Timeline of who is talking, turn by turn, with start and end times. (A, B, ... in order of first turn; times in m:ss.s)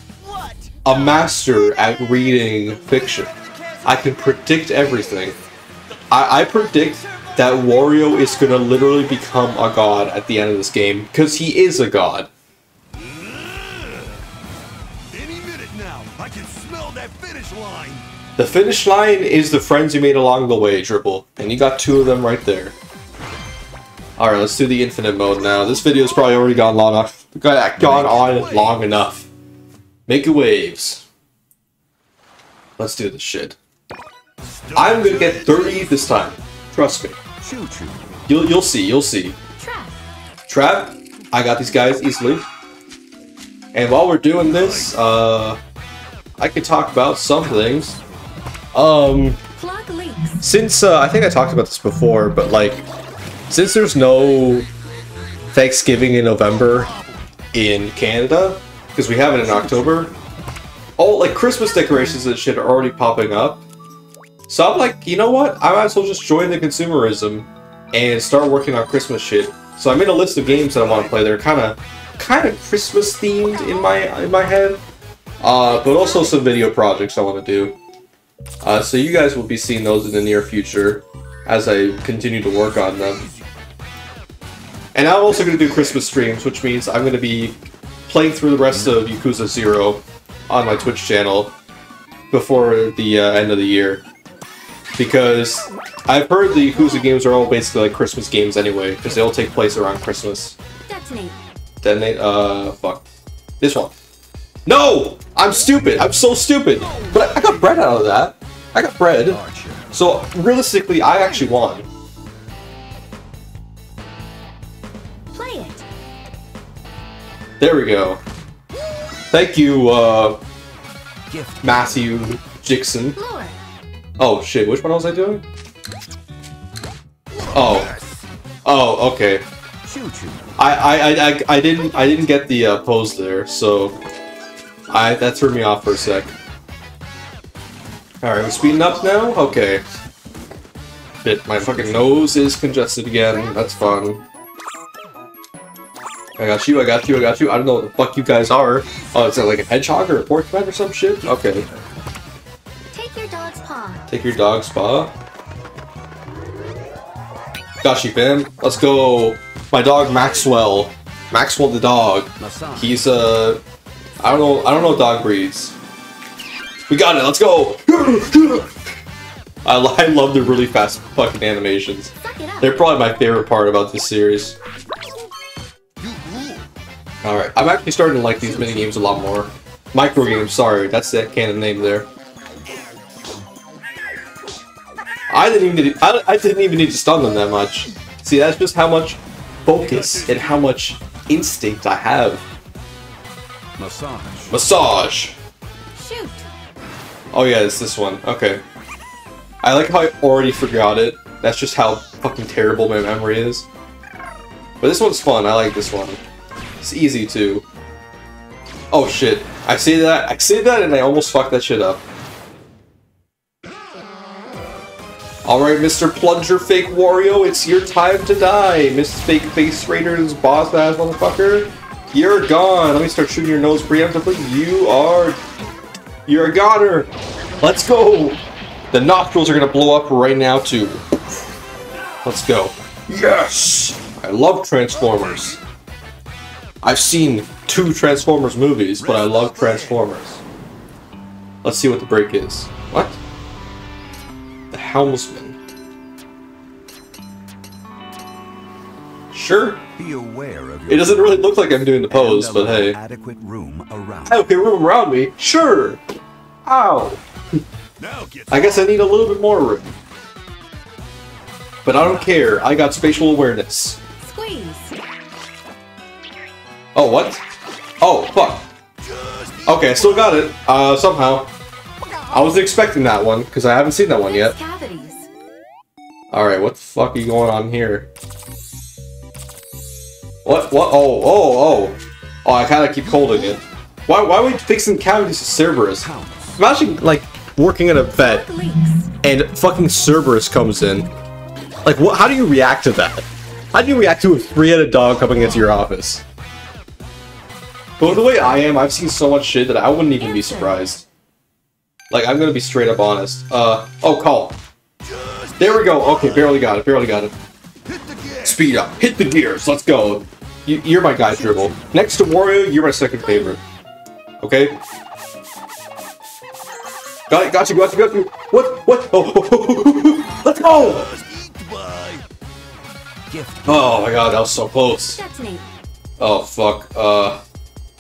0:00.2-0:00.9 A
0:00.8-0:03.3 B
0:01.9-0:05.4 A
0:03.8-0:05.4 B
0:06.1-0:12.3 B
0:06.2-0:08.6 A
0:15.2-0:18.0 A
0:18.4-0:22.8 B
0:24.2-0:29.3 B
0:27.8-0:28.8 C
0:30.1-0:31.0 B
0:32.8-0:33.6 B
0:34.7-0:37.2 B
0:37.4-0:38.1 C
0:38.3-0:39.4 B
0:39.6-0:40.0 D
0:40.5-0:42.5 B
0:43.7-0:45.6 B
0:46.4-0:48.0 B
0:48.7-0:49.4 B
0:49.6-0:50.4 D
0:50.4-0:52.8 B
0:53.5-0:54.7 B
0:55.5-0:56.9 B
0:57.5-1:00.2 B
1:01.0-1:03.6 B
1:01.7-1:02.2 D
1:04.5-1:14.8 B
1:15.4-1:17.8 B
1:15.6-1:16.5 D
1:18.6-1:23.3 B
1:25.0-1:31.6 B
1:28.7-1:29.0 C
1:32.3-1:34.0 B
1:35.0-1:40.6 B
1:40.9-1:41.4 D
1:41.8-1:43.0 B
1:43.6-1:43.9 B
1:44.7-1:51.9 B
1:49.3-1:49.9 C
1:55.3-1:55.8 D
1:57.6-1:58.2 B
1:59.3-2:00.4 B
2:01.3-2:02.1 C
2:01.6-2:03.2 B
2:03.2-2:03.6 D
2:04.2-2:05.4 B
2:07.5-2:07.9 B
2:08.6-2:09.5 B
2:09.8-2:10.5 C
2:10.6-2:14.0 B
2:14.9-2:16.3 B
2:18.2-2:19.8 B
2:21.2-2:24.2 B
2:26.4-2:31.7 B
2:32.9-2:34.1 D
2:34.1-2:35.1 B
2:37.8-2:43.6 B
2:42.4-2:43.0 C
2:44.2-2:45.8 B
2:44.2-2:45.1 D
2:46.9-2:48.7 B
2:49.6-2:54.6 B
2:52.2-2:52.8 D
2:57.2-3:02.1 B
2:58.5-2:59.0 D
3:05.3-3:12.4 B
3:13.8-3:14.6 C
3:14.5-3:15.4 B
3:16.0-3:16.5 D
3:17.3-3:18.6 B
3:19.6-3:23.7 B
3:24.8-3:26.2 B
3:26.8-3:27.6 B
3:28.9-3:32.0 B
3:35.4-3:45.4 B
3:46.3-3:47.1 B
3:47.6-3:48.4 B
3:48.9-3:51.0 B
3:52.2-3:55.6 B
3:56.8-4:00.4 B
4:01.6-4:03.2 B
4:04.7-4:05.6 B
4:09.3-4:09.8 B
4:10.0-4:14.5 C
4:10.9-4:13.0 B
4:14.3-4:16.0 B
4:16.7-4:17.2 B
4:18.5-4:19.9 B
4:21.8-4:24.0 B
4:24.2-4:25.0 D
4:27.0-4:27.4 B
4:28.0-4:28.7 B
4:29.7-4:31.5 B
4:32.3-4:34.6 B
4:34.3-4:35.3 D
4:36.3-4:38.1 B
4:40.4-4:48.5 B
4:46.0-4:46.6 C
4:48.1-4:49.1 D
4:49.2-4:51.1 B
4:51.8-4:56.2 B
4:58.0-5:01.0 B
5:00.2-5:00.8 D
5:02.1-5:04.6 B
5:05.6-5:07.3 B
5:08.4-5:13.6 B
5:11.3-5:11.8 C
5:13.3-5:13.6 D
5:14.4-5:14.8 B
5:17.3-5:21.1 B
5:23.3-5:24.2 C
5:23.7-5:25.2 B
5:25.2-5:25.7 D
5:26.2-5:27.4 B